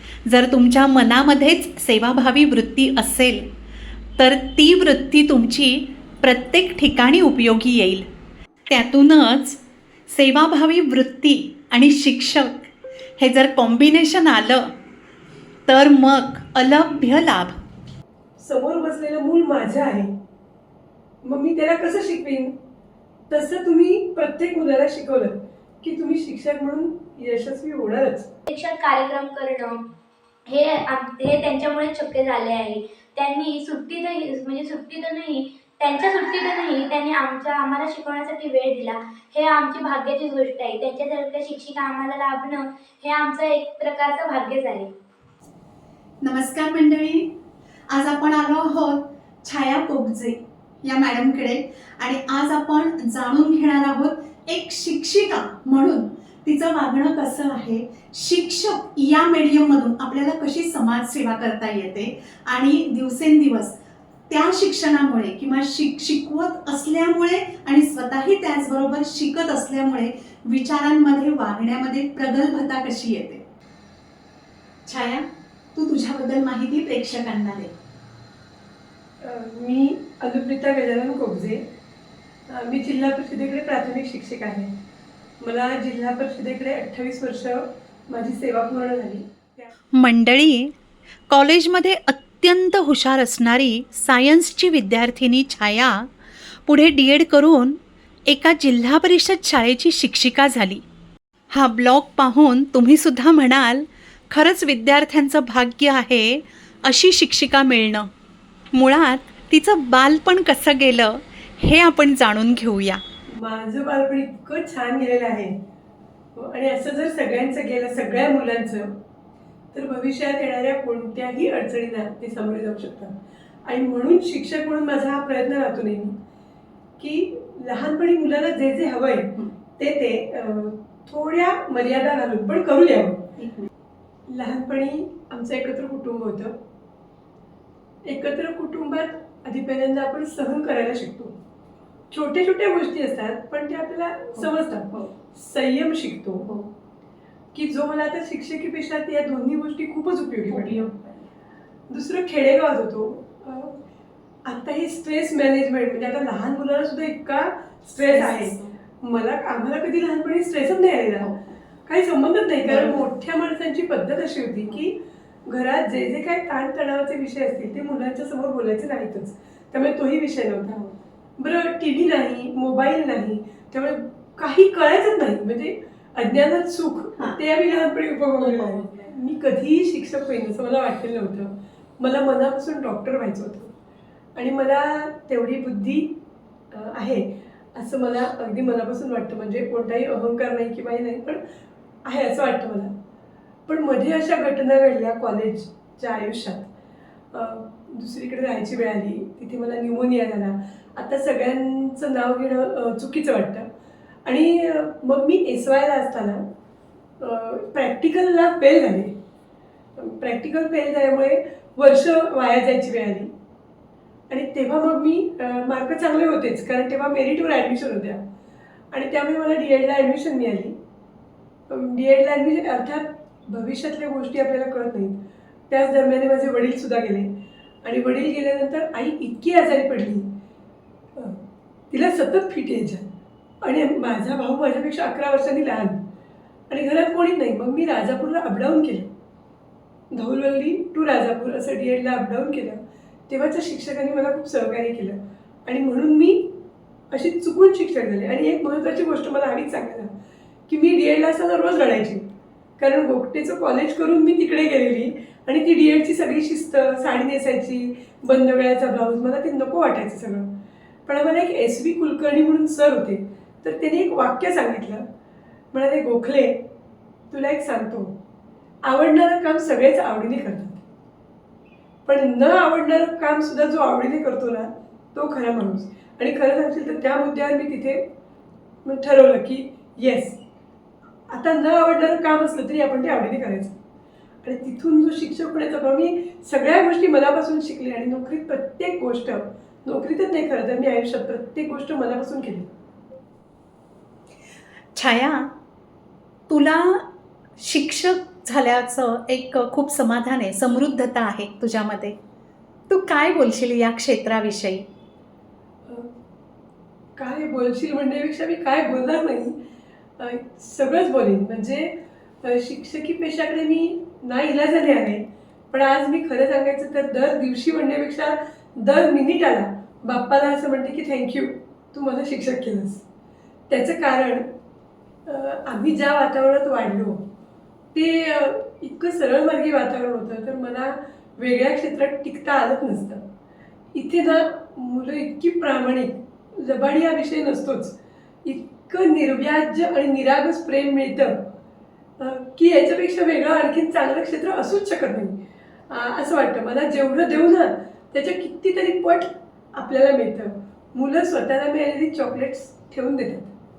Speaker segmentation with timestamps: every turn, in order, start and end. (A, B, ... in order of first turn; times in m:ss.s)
0:00.3-0:03.4 A
0:04.2-0:08.1 A
0:08.7-0:14.7 A
0:15.7-0:17.6 A
0:18.4-0:20.1 B
0:21.2-0:22.5 B
0:23.3-0:28.3 B
0:28.5-0:29.9 C
0:30.5-0:44.9 C
0:46.2-0:47.3 A
0:47.9-1:03.8 A
1:04.3-1:13.4 A
1:14.8-1:17.7 A
1:19.2-1:21.6 B
1:22.5-1:24.7 B
1:25.4-1:29.7 B
1:29.9-1:30.7 A
1:31.3-1:36.1 A
1:36.7-1:40.8 A
1:41.5-1:48.1 A
1:48.7-1:53.0 A
1:53.3-1:55.6 B
1:56.4-1:58.9 B
1:59.7-2:03.1 B
2:03.7-2:06.1 B
2:07.0-2:13.2 B
2:13.4-2:13.7 A
2:14.3-2:16.6 B
2:18.1-2:21.3 B
2:22.1-2:26.4 B
2:24.3-2:25.1 A
2:27.5-2:30.9 B
2:30.5-2:31.3 A
2:31.9-2:33.8 B
2:34.4-2:41.3 B
2:37.9-2:38.7 A
2:41.8-2:45.0 B
2:42.6-2:43.0 A
2:45.5-3:03.7 B
2:58.4-2:59.1 A
3:04.4-3:06.1 B
3:06.7-3:11.4 B
3:12.0-3:12.9 B
3:13.7-3:16.7 B
3:17.3-3:23.7 B
3:24.2-3:26.4 B
3:27.2-3:29.1 B
3:30.0-3:33.3 B
3:34.3-3:38.2 B
3:38.9-3:40.7 B
3:41.7-3:47.3 B
3:47.8-3:50.3 B
3:51.9-3:53.1 B
3:53.6-3:56.0 B
3:56.7-3:59.1 B
4:00.1-4:06.5 B
4:07.1-4:10.1 B
4:10.7-4:12.2 B
4:12.8-4:20.5 B
4:21.1-4:25.0 B
4:25.7-4:26.6 B
4:27.3-4:28.1 B
4:28.8-4:30.8 B
4:32.0-4:38.0 B
4:38.8-4:40.4 B
4:41.3-4:43.8 B
4:44.4-4:52.7 B
4:54.9-4:55.5 A
4:56.5-4:57.0 A
4:57.6-5:02.2 A
5:02.9-5:04.8 A
5:07.2-5:09.6 B
5:10.2-5:11.9 B
5:12.4-5:23.0 B
5:23.7-5:24.4 B
5:25.2-5:27.2 B
5:27.9-5:33.2 B
5:33.9-5:41.4 B
5:42.2-5:45.4 B
5:45.9-5:53.5 B